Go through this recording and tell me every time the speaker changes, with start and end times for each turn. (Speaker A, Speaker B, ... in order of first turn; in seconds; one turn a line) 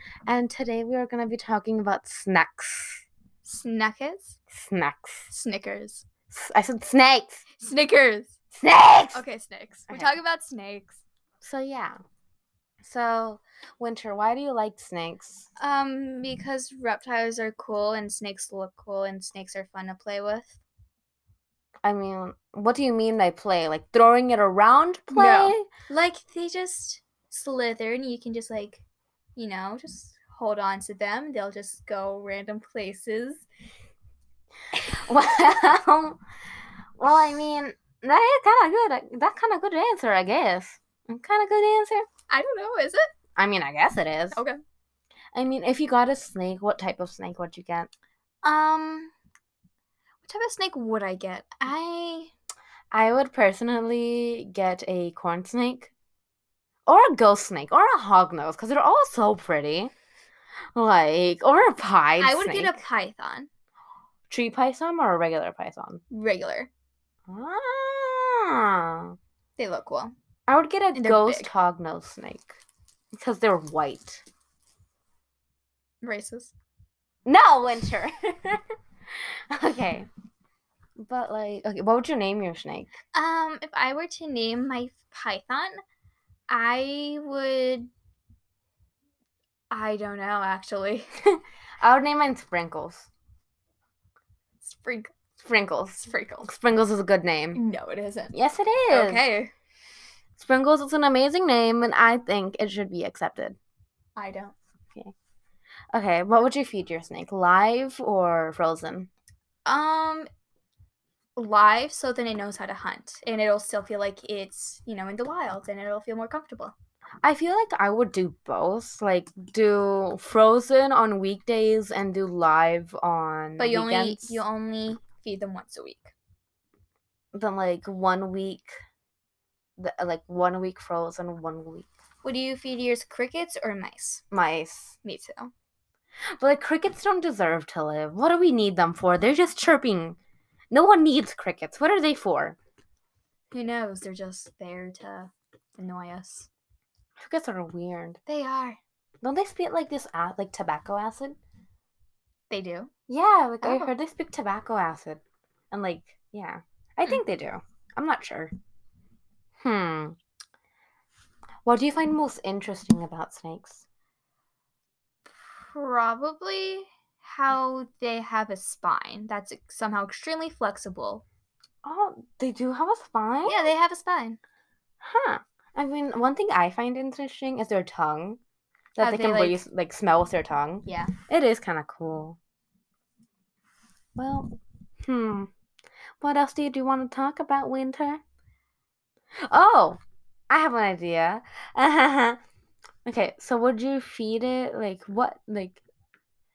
Speaker A: 0.3-3.0
Speaker B: 3.5-4.4
Speaker A: 4.5-5.3
Speaker B: 5.3-6.1
Speaker A: 6.3-7.5
Speaker B: 7.5-8.3
Speaker A: 8.5-9.2
Speaker B: 9.1-11.0
Speaker A: 9.9-10.2
Speaker A: 11.4-12.0
Speaker A: 12.8-15.5
Speaker B: 15.6-20.6
Speaker A: 21.8-25.7
Speaker B: 25.1-28.8
Speaker B: 29.4-33.5
Speaker A: 34.7-36.2
Speaker A: 37.0-42.1
Speaker B: 42.3-43.1
Speaker A: 43.4-44.4
Speaker A: 45.3-47.9
Speaker B: 48.4-49.1
Speaker B: 50.2-52.3
Speaker A: 52.9-55.9
Speaker A: 56.9-59.9
Speaker A: 60.8-62.8
Speaker B: 62.2-63.5
Speaker A: 64.3-66.0
Speaker B: 66.1-66.7
Speaker A: 67.3-69.2
Speaker B: 69.6-70.1
Speaker A: 70.5-72.6
Speaker B: 71.0-71.5
Speaker A: 73.2-74.2
Speaker B: 76.0-76.5
Speaker A: 77.3-78.6
Speaker A: 79.5-80.1
Speaker A: 81.0-82.9
Speaker B: 83.1-85.8
Speaker B: 86.5-87.9
Speaker B: 89.7-91.1
Speaker A: 91.2-93.1
Speaker B: 94.6-95.1
Speaker A: 95.4-97.6
Speaker B: 96.0-96.5
Speaker B: 97.5-98.3
Speaker A: 98.3-99.3
Speaker B: 98.9-99.5
Speaker A: 100.4-103.6
Speaker B: 104.2-104.6
Speaker A: 105.9-109.1
Speaker B: 109.7-110.3
Speaker B: 111.4-116.7
Speaker A: 117.2-124.4
Speaker B: 123.6-126.1
Speaker A: 127.3-128.7
Speaker A: 129.8-131.9
Speaker B: 132.2-134.2
Speaker A: 134.3-135.0
Speaker B: 135.0-135.5
Speaker A: 136.4-140.2
Speaker A: 140.7-142.6
Speaker B: 143.5-146.5
Speaker A: 147.2-148.2
Speaker B: 148.3-148.8
Speaker A: 149.2-151.4
Speaker B: 152.5-152.9
Speaker A: 153.1-158.5
Speaker B: 153.6-153.9
Speaker A: 159.6-160.2
Speaker A: 161.6-163.8
Speaker B: 165.4-171.2
Speaker A: 171.8-173.7
Speaker B: 173.5-174.4
Speaker A: 175.0-178.4
Speaker A: 179.0-182.4
Speaker B: 179.0-179.6
Speaker B: 180.9-181.2
Speaker A: 184.2-185.5
Speaker A: 186.2-188.2
Speaker A: 189.5-190.0
Speaker A: 190.5-192.4
Speaker A: 193.1-195.8